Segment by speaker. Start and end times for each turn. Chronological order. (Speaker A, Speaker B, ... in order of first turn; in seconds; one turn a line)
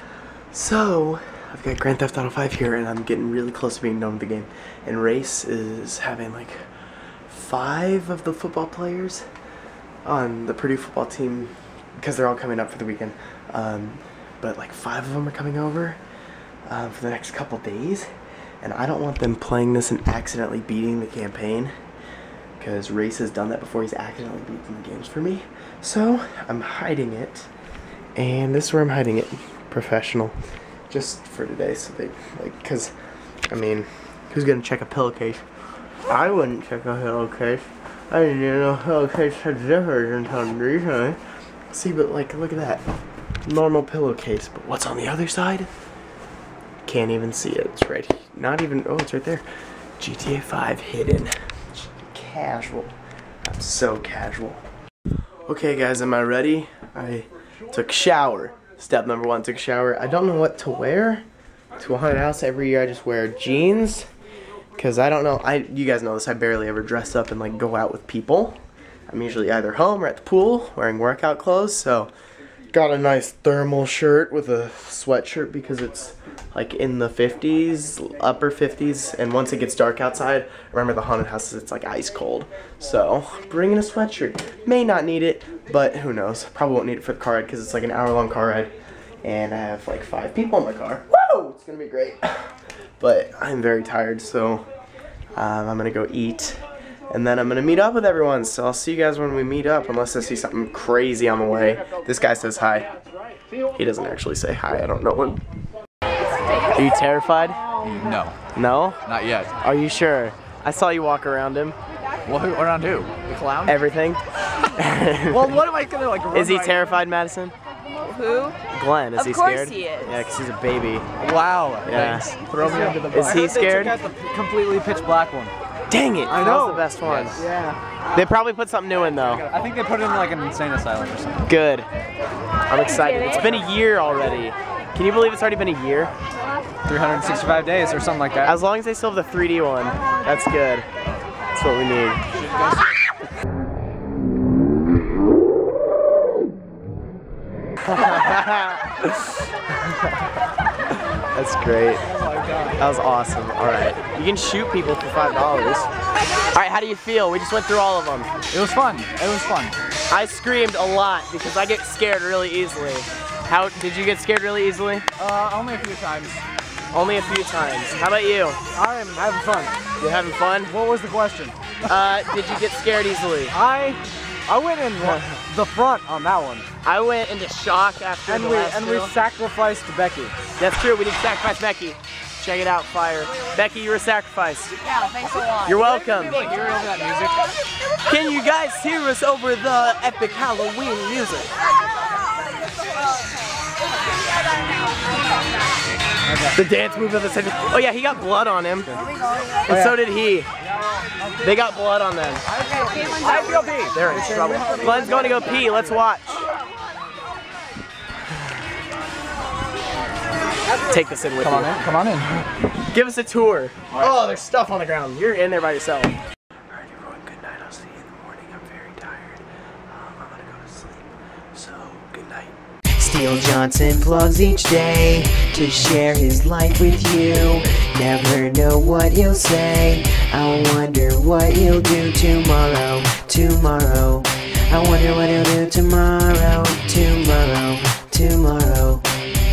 Speaker A: 0.5-6.6
Speaker A: 7.3-9.2
Speaker A: 10.1-16.0
Speaker A: 16.7-18.1
Speaker A: 18.6-21.7
Speaker A: 22.6-27.5
Speaker A: 28.2-30.4
Speaker A: 30.9-32.9
Speaker A: 33.5-35.4
Speaker A: 36.1-41.2
Speaker A: 41.7-42.8
Speaker A: 43.4-45.7
Speaker A: 46.9-49.4
Speaker A: 50.0-51.3
Speaker A: 51.9-52.9
Speaker A: 53.5-54.6
Speaker A: 55.5-61.2
Speaker A: 61.8-64.1
Speaker A: 64.8-68.6
Speaker A: 69.1-72.1
Speaker A: 72.7-88.7
Speaker A: 89.2-94.6
Speaker A: 95.4-102.9
Speaker A: 103.8-105.4
Speaker A: 106.7-107.6
Speaker B: 107.8-108.3
Speaker A: 108.5-109.0
Speaker B: 109.1-109.5
Speaker A: 109.6-111.8
Speaker B: 112.2-113.8
Speaker A: 113.6-115.6
Speaker B: 115.3-117.0
Speaker A: 116.3-117.5
Speaker C: 118.0-118.6
Speaker A: 118.7-121.1
Speaker C: 119.2-120.2
Speaker B: 121.2-125.5
Speaker A: 121.8-124.0
Speaker A: 125.9-127.4
Speaker B: 126.3-128.1
Speaker A: 128.1-129.4
Speaker B: 129.4-131.4
Speaker A: 131.4-131.9
Speaker A: 132.7-136.1
Speaker C: 133.0-133.4
Speaker B: 136.9-138.6
Speaker A: 138.4-140.9
Speaker A: 141.5-142.3
Speaker A: 147.8-149.4
Speaker A: 151.3-152.1
Speaker B: 152.1-152.8
Speaker A: 152.8-155.9
Speaker A: 156.5-158.3
Speaker B: 158.5-159.8
Speaker A: 160.1-165.1
Speaker B: 165.2-166.4
Speaker A: 166.9-168.6
Speaker B: 168.7-169.8
Speaker A: 170.0-170.8
Speaker B: 170.7-171.8
Speaker A: 171.8-173.6
Speaker B: 173.5-176.7
Speaker A: 175.0-175.4
Speaker A: 176.8-179.2
Speaker B: 178.3-180.4
Speaker A: 180.6-184.8
Speaker C: 184.8-185.8
Speaker A: 185.5-186.5
Speaker B: 186.1-187.5
Speaker A: 188.0-191.5
Speaker B: 196.3-196.6
Speaker A: 196.5-199.0
Speaker B: 199.5-200.0
Speaker A: 199.7-200.5
Speaker A: 201.4-202.4
Speaker B: 202.6-205.9
Speaker C: 202.9-203.7
Speaker A: 203.9-206.5
Speaker A: 210.8-211.9
Speaker B: 211.4-212.3
Speaker A: 212.7-216.2
Speaker A: 216.7-222.6
Speaker D: 223.0-239.1